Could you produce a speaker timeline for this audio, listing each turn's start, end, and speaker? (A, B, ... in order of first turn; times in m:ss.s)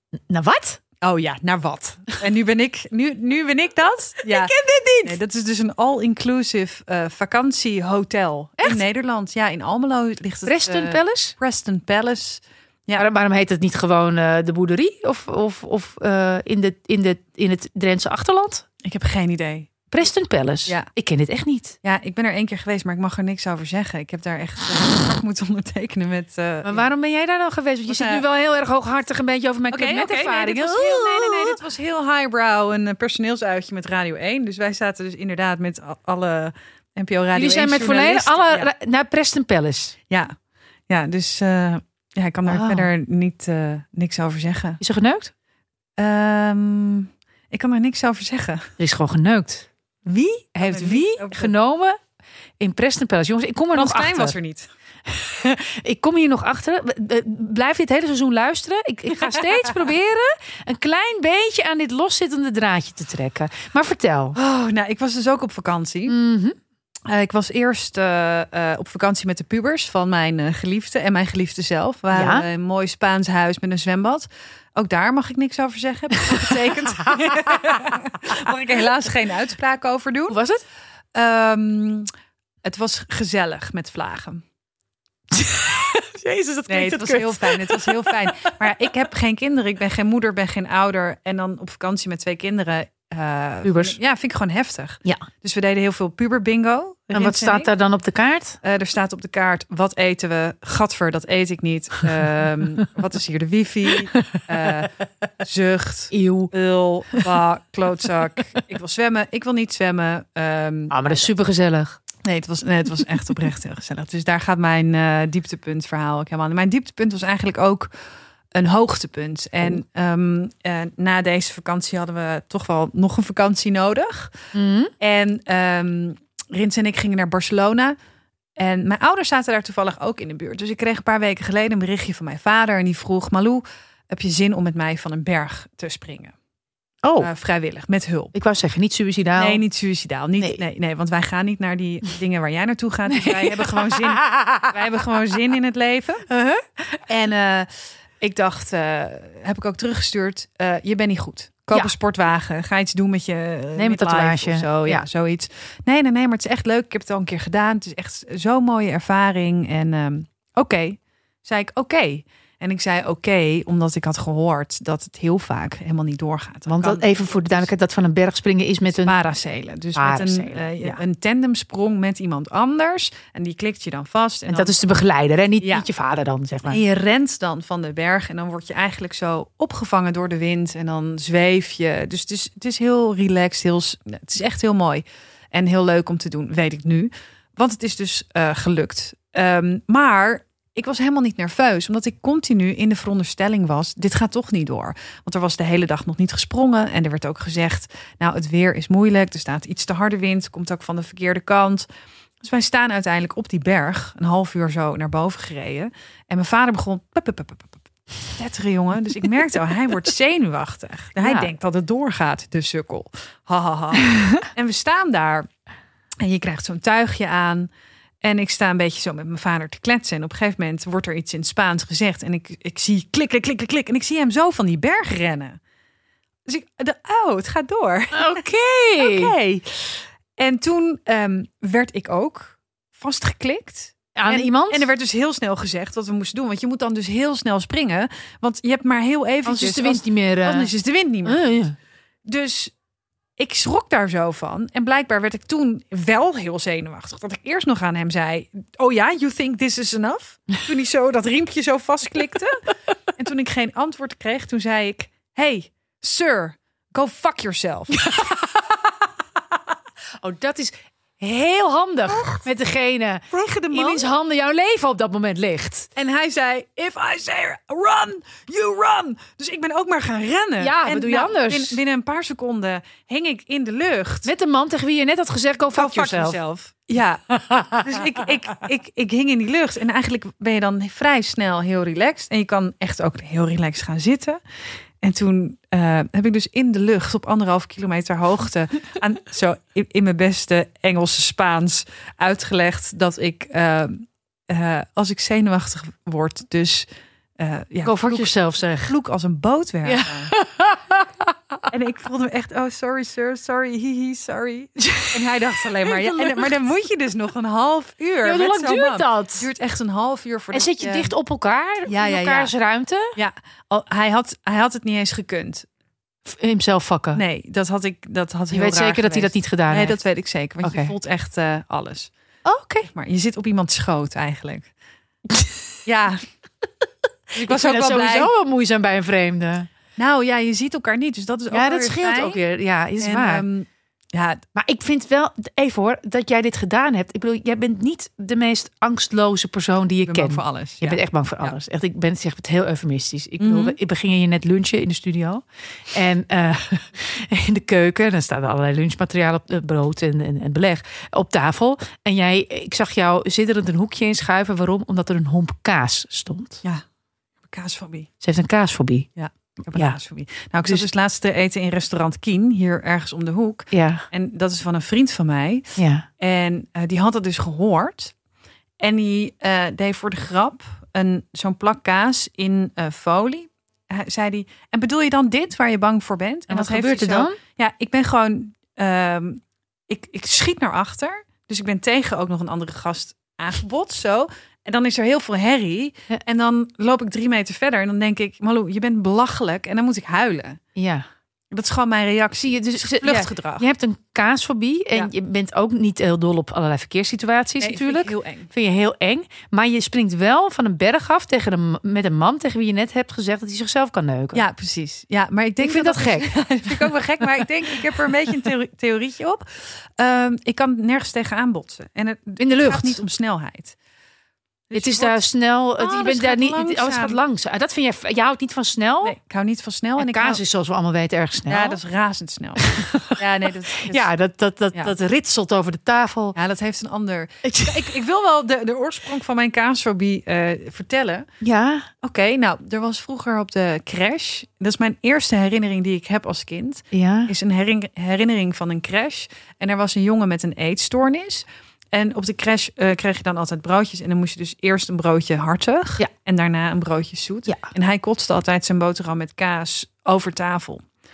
0:00.1-0:00.8 A
0:01.0-0:13.0 B
0:04.2-0:05.2 A
0:10.4-0:11.3 A
0:13.0-0:18.6 A
0:18.8-0:19.8 B
0:19.9-0:21.8 A
0:21.8-0:26.9 B
0:26.6-0:31.6 A
0:27.9-0:28.2 B
0:29.7-0:38.7 B
0:37.3-0:39.9 A
0:40.9-0:44.8 B
0:42.4-0:42.9 A
0:44.8-0:45.3 A
0:46.0-0:48.7 B
0:48.8-0:52.0 A
0:50.6-0:51.5 B
0:52.6-0:54.3 A
0:53.7-0:54.7 B
0:55.1-1:04.4 A
1:04.3-1:06.2 B
1:06.1-1:06.6 A
1:07.0-1:20.4 B
1:12.1-1:12.4 A
1:16.3-1:17.8 A
1:20.3-1:20.6 A
1:21.1-1:22.1 B
1:22.6-1:24.4 B
1:25.3-1:28.5 A
1:26.7-1:37.7 B
1:33.6-1:34.0 A
1:37.1-1:38.6 A
1:38.6-1:51.0 B
1:46.1-1:46.5 A
1:50.9-1:52.0 A
1:52.2-1:57.9 B
1:58.5-2:04.4 B
2:04.5-2:04.9 A
2:05.0-2:08.0 B
2:08.6-2:16.3 B
2:17.0-2:17.3 A
2:17.2-2:18.3 B
2:18.3-2:19.6 A
2:19.4-2:26.2 B
2:23.1-2:24.7 A
2:26.3-2:27.0 A
2:27.1-2:47.7 B
2:33.7-2:35.0 A
2:46.6-2:49.2 A
2:48.9-2:54.7 B
2:49.9-2:51.0 A
2:54.5-2:56.8 A
2:56.7-3:21.8 B
3:22.4-3:35.5 B
3:31.2-3:31.5 A
3:36.2-3:37.7 B
3:38.2-3:45.6 B
3:46.4-3:48.4 B
3:48.1-3:49.3 A
3:49.0-4:01.6 B
3:54.1-3:54.9 A
3:59.4-4:00.7 A
4:01.2-4:01.8 A
4:02.2-4:02.7 B
4:03.4-4:12.6 B
4:13.2-4:18.1 B
4:18.0-4:18.5 A
4:20.2-4:25.9 A
4:22.1-4:22.4 B
4:23.3-4:24.1 B
4:26.0-4:34.3 B
4:30.6-4:31.8 A
4:34.2-4:36.4 A
4:35.7-4:44.4 B
4:37.3-4:38.3 A
4:45.0-4:56.9 B
4:57.4-5:00.3 B
4:57.8-4:58.9 A
4:59.8-5:01.6 A
5:01.7-5:11.1 B
5:04.8-5:05.2 A
5:05.8-5:06.5 A
5:08.2-5:09.4 A
5:10.5-5:13.1 A
5:11.8-5:12.5 B
5:13.1-5:15.7 B
5:16.2-5:17.2 A
5:17.1-5:22.1 B
5:18.5-5:20.0 A
5:20.6-5:20.9 A
5:22.4-5:22.9 A
5:22.8-5:24.7 B
5:25.3-5:25.6 A
5:25.8-5:26.2 B
5:27.3-5:29.7 A
5:27.3-5:28.3 B
5:30.0-5:32.4 B
5:31.5-5:33.4 A
5:33.0-5:34.4 B
5:34.5-5:56.6 A
5:40.0-5:41.6 B
5:43.4-5:43.8 B
5:57.5-5:58.1 B
5:58.2-5:59.1 A
5:59.2-6:08.1 B
6:03.7-6:04.0 A
6:05.8-6:06.0 A
6:08.8-6:30.6 B
6:16.5-6:17.4 A
6:30.8-6:31.0 A
6:31.5-6:33.7 B
6:32.4-6:44.4 A
6:37.6-6:38.5 B
6:44.3-6:53.8 B
6:45.6-6:46.9 A
6:52.4-6:53.0 A
6:54.7-6:55.2 B
6:54.7-6:59.1 A
6:55.8-6:57.2 B
6:59.0-7:00.4 B
7:00.0-7:01.8 A
7:01.5-7:04.1 B
7:02.6-7:03.2 A
7:03.8-7:06.4 A
7:06.3-7:11.3 B
7:07.4-7:08.0 A
7:11.4-7:11.9 A
7:12.0-7:30.8 B
7:16.9-7:17.3 A